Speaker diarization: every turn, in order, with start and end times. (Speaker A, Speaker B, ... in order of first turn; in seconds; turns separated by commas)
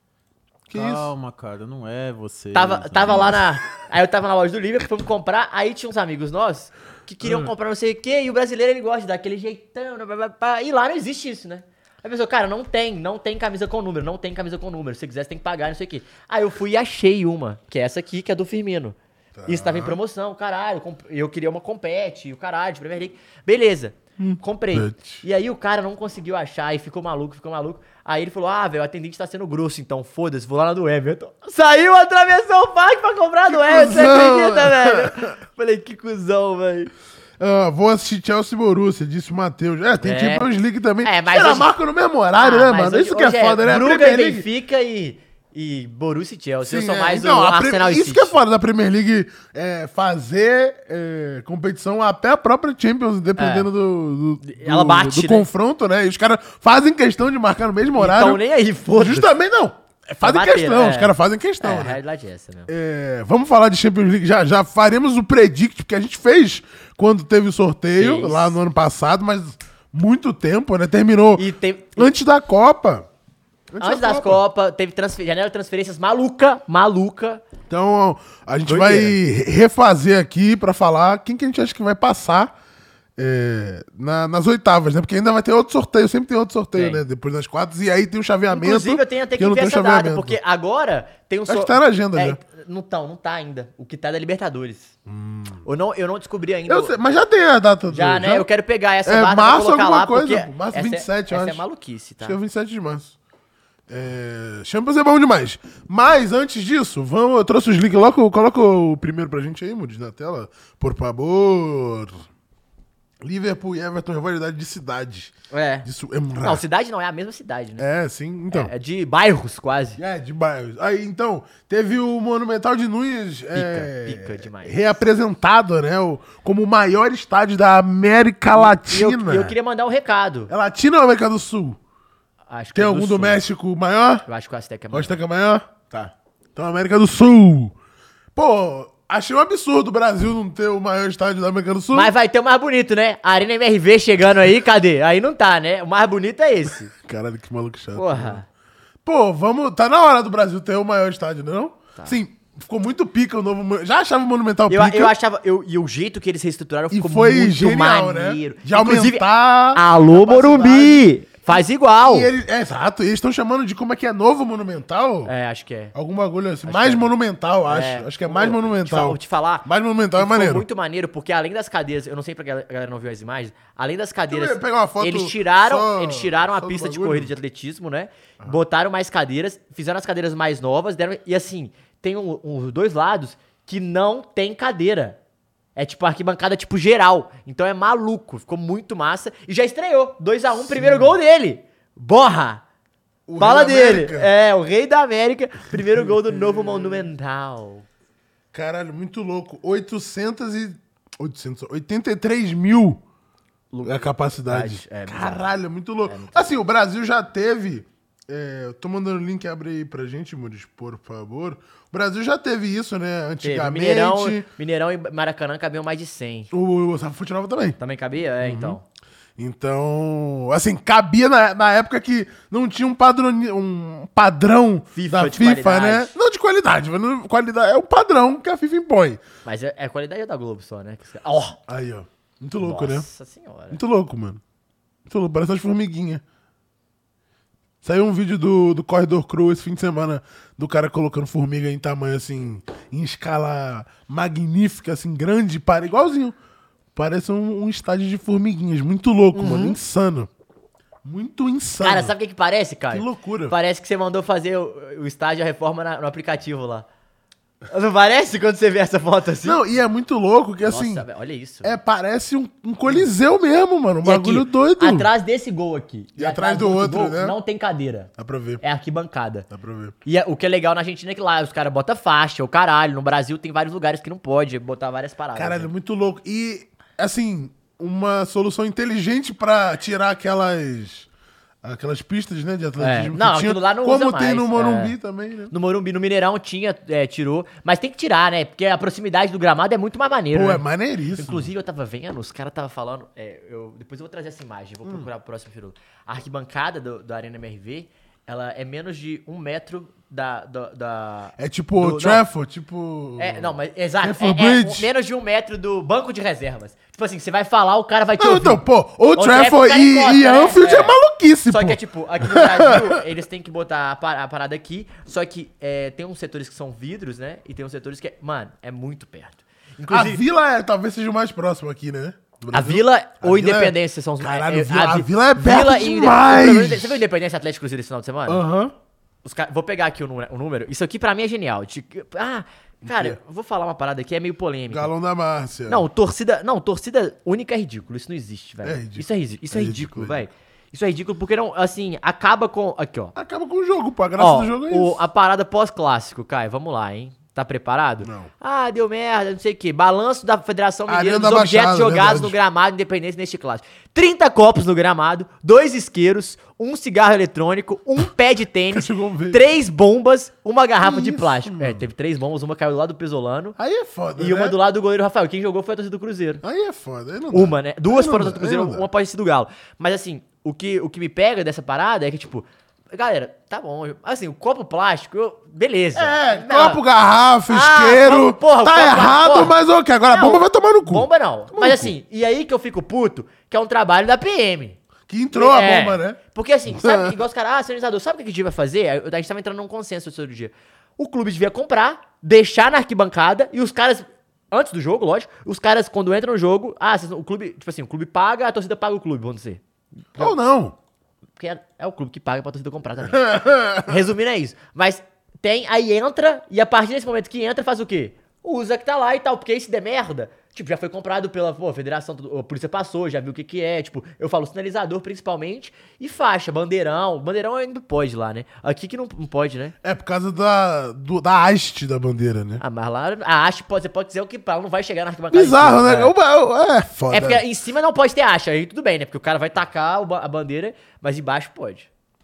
Speaker A: 0.7-1.1, Speaker B: 0.7-3.2, Speaker C: 2.5-18.9, Speaker A: 3.1-3.4, Speaker A: 7.2-7.5, Speaker A: 19.3-20.0, Speaker C: 19.5-36.9, Speaker A: 24.2-25.2, Speaker A: 33.5-35.3, Speaker A: 37.4-44.5, Speaker C: 40.0-40.5, Speaker C: 41.0-41.7, Speaker C: 42.4-48.4, Speaker A: 46.6-58.4, Speaker C: 53.4-53.7, Speaker C: 54.4-55.5, Speaker C: 58.0-59.3, Speaker A: 58.9-62.0, Speaker C: 60.2-62.7, Speaker A: 62.7-73.1, Speaker C: 68.0-68.5, Speaker C: 71.3-72.1, Speaker A: 73.7-74.4, Speaker C: 73.8-77.4, Speaker A: 77.7-82.5, Speaker C: 78.7-79.2, Speaker A: 83.2-90.4, Speaker C: 86.7-87.0, Speaker C: 88.5-94.9, Speaker A: 91.5-92.4, Speaker A: 95.0-95.6, Speaker C: 95.6-97.0, Speaker A: 96.7-98.5, Speaker C: 97.9-102.4, Speaker A: 99.0-101.6, Speaker A: 102.2-103.1, Speaker A: 103.9-112.2, Speaker A: 113.2-115.3, Speaker C: 115.5-115.9, Speaker A: 115.8-116.6, Speaker C: 116.4-117.8, Speaker A: 117.8-118.7, Speaker C: 118.5-120.0, Speaker A: 120.0-129.5, Speaker C: 123.5-124.9, Speaker C: 128.5-130.5, Speaker A: 130.5-131.8, Speaker C: 132.5-133.4, Speaker A: 132.7-134.2, Speaker C: 134.2-135.2, Speaker A: 134.9-137.7, Speaker A: 138.3-142.1, Speaker C: 141.9-146.9, Speaker A: 146.9-148.4, Speaker C: 147.9-148.4, Speaker A: 149.0-155.1, Speaker C: 154.7-162.3, Speaker A: 156.9-165.3, Speaker C: 165.2-165.9, Speaker A: 165.9-170.7, Speaker C: 166.7-167.1, Speaker C: 167.7-185.2, Speaker A: 174.3-177.3, Speaker C: 185.8-192.6, Speaker A: 190.5-191.2, Speaker A: 193.3-194.3, Speaker C: 193.4-197.8, Speaker A: 195.9-197.1, Speaker A: 198.5-203.0, Speaker C: 203.7-205.5, Speaker A: 203.8-214.5, Speaker C: 206.1-206.5, Speaker C: 213.4-216.5, Speaker A: 216.5-217.8, Speaker C: 217.8-218.8, Speaker A: 218.4-218.8, Speaker A: 219.4-229.2, Speaker C: 224.9-226.1, Speaker C: 229.4-231.6, Speaker A: 231.7-233.1, Speaker C: 232.6-233.8, Speaker A: 233.7-234.4, Speaker A: 235.1-236.2, Speaker A: 237.8-246.3, Speaker A: 246.9-250.3, Speaker C: 249.3-249.8, Speaker A: 251.0-252.1, Speaker C: 251.8-256.9, Speaker A: 252.9-253.5, Speaker C: 257.7-259.6, Speaker A: 259.4-261.0, Speaker C: 260.6-261.7, Speaker A: 261.6-265.1, Speaker C: 264.0-269.5, Speaker A: 266.2-267.4, Speaker A: 268.2-268.6, Speaker A: 269.5-269.9, Speaker C: 270.0-275.7, Speaker A: 275.3-281.1, Speaker A: 281.6-285.5, Speaker C: 282.8-284.9, Speaker C: 285.5-290.6, Speaker A: 290.3-291.5, Speaker C: 291.2-302.2, Speaker A: 301.4-304.9, Speaker C: 303.2-308.6, Speaker A: 308.2-313.0, Speaker C: 309.1-311.0, Speaker C: 311.5-320.2, Speaker A: 319.9-327.0, Speaker C: 322.5-328.4, Speaker A: 328.3-328.7, Speaker C: 329.2-334.9, Speaker A: 332.8-333.2, Speaker A: 334.7-335.8, Speaker C: 335.7-343.1, Speaker A: 338.6-340.2, Speaker A: 343.1-345.0, Speaker C: 344.2-363.6, Speaker A: 348.0-348.3, Speaker A: 350.9-352.4, Speaker A: 358.7-359.4, Speaker A: 360.8-361.8, Speaker A: 363.6-364.6, Speaker C: 364.2-366.4, Speaker A: 366.4-368.8, Speaker C: 367.3-376.8, Speaker A: 375.9-381.9, Speaker C: 377.5-379.5, Speaker C: 380.1-384.8, Speaker A: 385.1-387.1, Speaker C: 385.3-399.6, Speaker A: 400.2-400.7, Speaker C: 401.4-419.7, Speaker A: 403.1-404.0, Speaker A: 419.8-422.6, Speaker C: 422.6-426.1, Speaker A: 425.3-427.4, Speaker C: 427.1-431.9